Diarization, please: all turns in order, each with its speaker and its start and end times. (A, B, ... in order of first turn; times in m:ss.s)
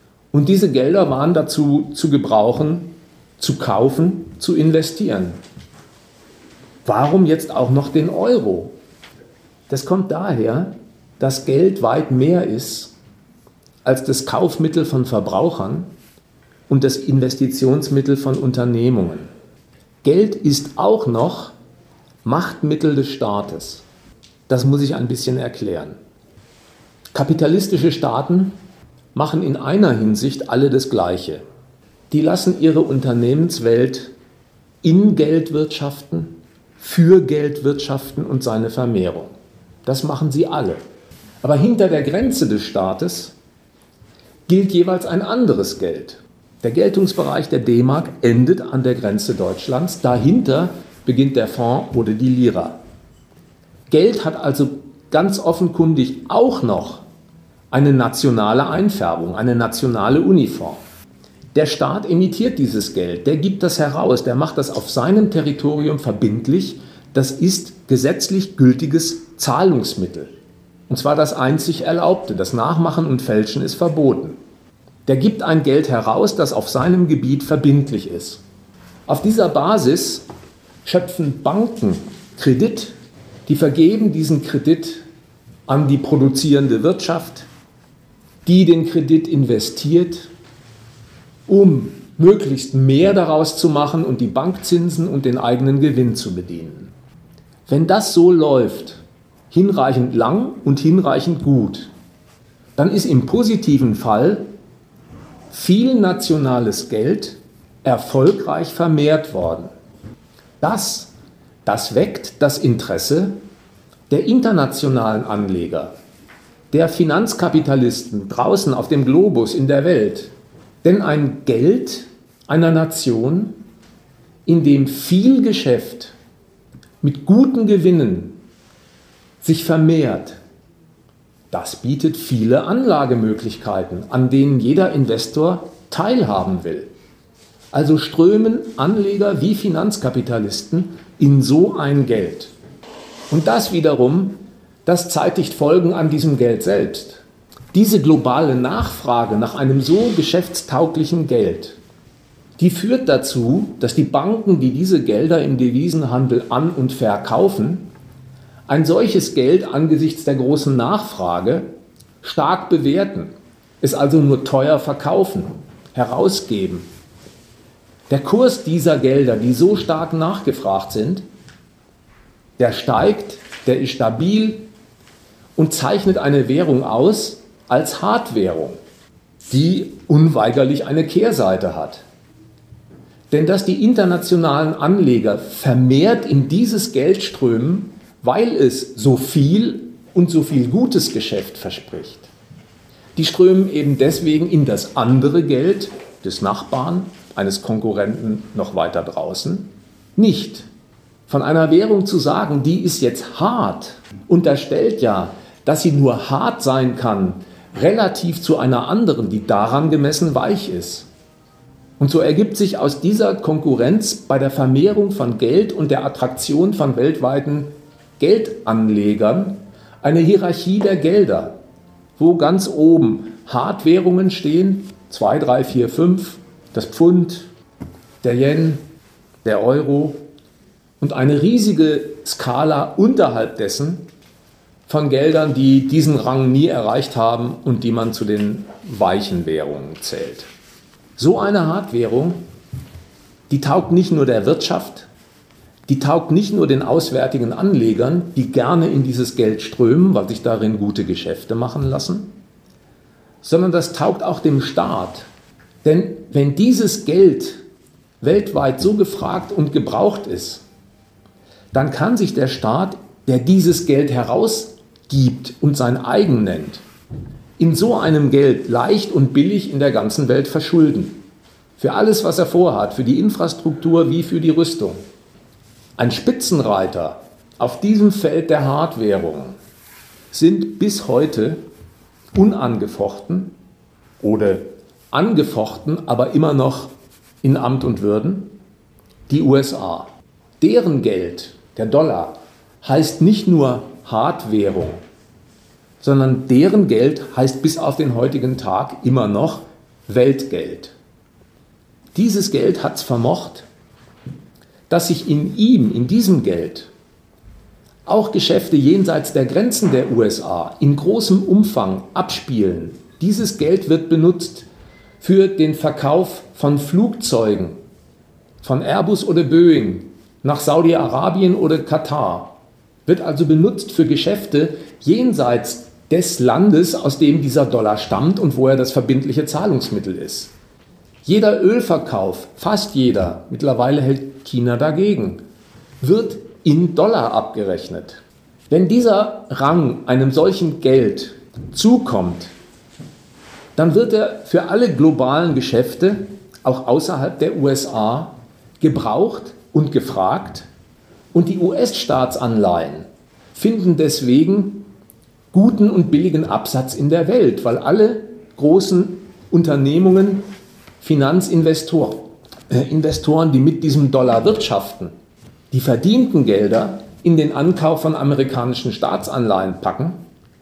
0:00.3-0:05.4 A
0:06.8-0:08.8 A
0:09.7-0:12.9 A
0:13.8-0:15.9 A
0:16.7-0:19.3 A
0:20.0-0:21.5 A
0:22.2-0:23.8 A
0:24.5-0:26.0 A
0:27.1-0:28.6 A
0:29.1-0:31.4 A
0:32.1-0:34.1 A
0:34.8-0:39.3 A
0:39.8-0:40.8 A
0:41.4-0:43.3 A
0:44.5-0:52.8 A
0:53.9-0:57.0 A
0:57.7-1:00.8 A
1:01.5-1:10.3 A
1:10.9-1:14.4 A
1:15.1-1:18.4 A
1:19.1-1:20.3 A
1:20.8-1:23.0 A
1:23.5-1:25.0 A
1:25.7-1:27.5 A
1:28.4-1:30.3 A
1:31.5-1:36.9 A
1:37.7-1:41.9 A
1:42.8-1:44.5 A
1:45.5-1:49.7 A
1:50.6-1:51.1 A
1:51.6-1:53.4 A
1:54.1-1:55.9 A
1:56.7-2:00.3 A
2:00.8-2:03.6 A
2:04.5-2:06.2 A
2:07.0-2:08.4 A
2:09.4-2:10.4 A
2:11.5-2:16.9 A
2:17.7-2:22.5 A
2:23.3-2:31.8 A
2:32.6-2:37.9 A
2:38.7-2:41.7 A
2:42.2-2:46.9 A
2:48.1-2:51.2 A
2:52.6-2:54.6 A
2:55.6-2:58.8 A
2:59.5-3:02.0 A
3:03.3-3:12.3 A
3:13.2-3:20.7 A
3:21.3-3:31.1 A
3:32.0-3:41.6 A
3:42.2-3:47.5 A
3:48.2-3:48.8 A
3:49.4-3:50.3 A
3:51.0-3:54.1 A
3:54.9-4:00.5 A
4:01.2-4:02.4 A
4:03.5-4:05.1 A
4:05.9-4:12.3 A
4:13.4-4:15.3 A
4:15.8-4:17.6 A
4:18.2-4:20.6 A
4:21.7-4:26.8 A
4:27.6-4:31.2 A
4:31.8-4:35.0 A
4:36.0-4:39.6 A
4:40.3-4:41.6 A
4:42.3-4:43.5 A
4:44.2-4:48.5 A
4:49.3-4:50.1 A
4:50.6-4:55.0 A
4:56.0-5:00.9 A
5:02.2-5:03.7 A
5:04.9-5:06.9 A
5:08.1-5:14.7 A
5:15.2-5:17.8 A
5:18.6-5:30.5 A
5:31.2-5:35.4 A
5:36.0-5:42.5 A
5:43.8-5:50.7 A
5:51.3-5:54.9 A
5:55.5-6:00.5 A
6:01.0-6:05.1 A
6:05.7-6:10.2 A